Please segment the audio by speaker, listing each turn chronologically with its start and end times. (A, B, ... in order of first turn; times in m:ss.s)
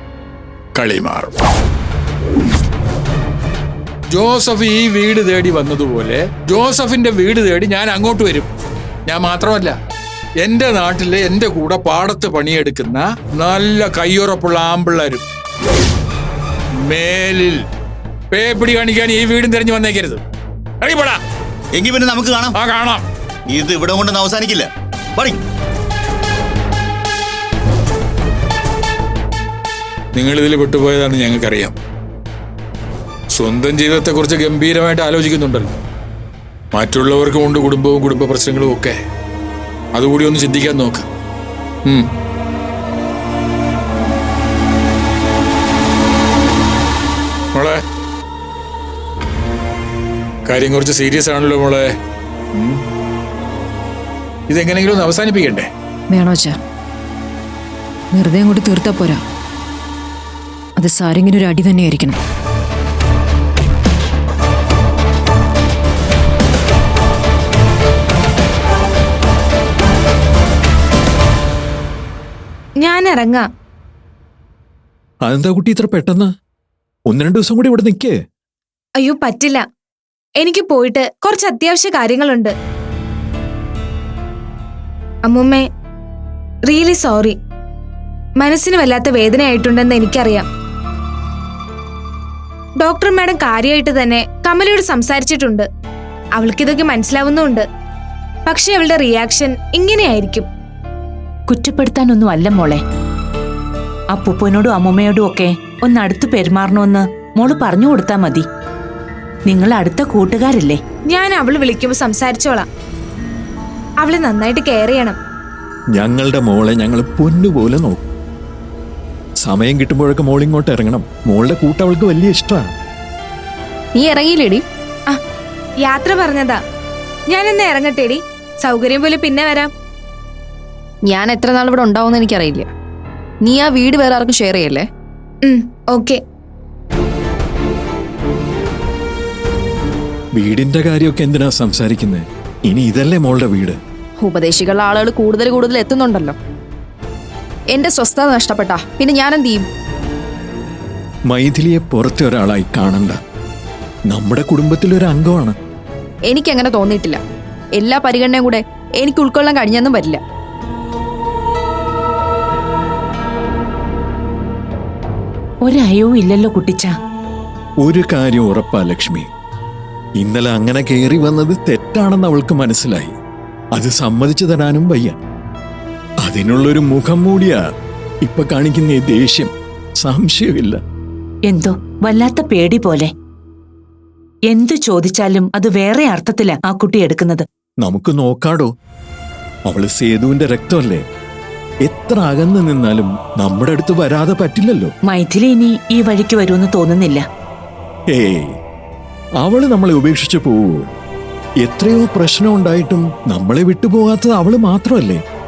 0:00.8-0:01.4 A
0:04.1-0:08.5 A
0:09.1-0:09.8 A
0:10.4-0:15.2 A
0:16.8-0:17.6 A
0:18.3-0:20.2 A
0:20.8-0:21.2 A
0:21.8-0:22.5 B
0:22.6-0:23.0 A
0:23.5-0:25.4 B
0:30.2-0:31.7 A
0:33.3-0:35.7 A
0:36.7-0:39.0 A
0:40.0-0:41.1 A
0:47.5-0:47.8 A
0:50.5-0:51.9 A
0:54.5-0:55.7 A
0:56.1-0:56.6 C
0:58.1-0:59.2 C
1:00.8-1:02.2 C
1:12.8-1:13.4 D
1:15.2-1:16.3 E
1:17.1-1:18.2 E
1:19.0-1:19.6 D
1:20.4-1:22.5 D
1:25.3-1:25.6 D
1:26.7-1:27.4 D
1:28.4-1:30.5 D
1:32.8-1:35.7 D
1:36.4-1:37.6 D
1:38.5-1:40.5 D
1:41.5-1:42.8 F
1:44.1-1:48.4 F
1:49.5-1:50.8 F
1:51.1-1:52.7 D
1:54.0-1:55.2 D
1:56.0-1:58.0 E
1:59.4-2:02.7 E
2:03.9-2:04.6 G
2:05.8-2:06.6 D
2:07.3-2:09.7 D
2:11.0-2:12.7 G
2:13.4-2:14.9 G
2:15.4-2:16.2 D
2:20.4-2:23.8 E
2:24.2-2:26.4 G
2:27.7-2:29.7 G
2:31.3-2:33.2 E
2:34.1-2:35.6 E
2:36.3-2:37.2 G
2:37.7-2:40.2 G
2:45.6-2:46.9 F
2:47.8-2:49.3 E
2:50.2-2:53.2 E
2:53.7-2:55.2 E
2:56.2-2:57.6 E
2:58.2-3:00.8 E
3:01.5-3:03.1 F
3:04.5-3:07.5 F
3:07.8-3:08.7 E
3:09.7-3:11.0 E
3:11.8-3:14.9 E
3:15.1-3:17.2 F
3:18.1-3:18.5 E
3:19.4-3:20.9 E
3:21.6-3:25.2 E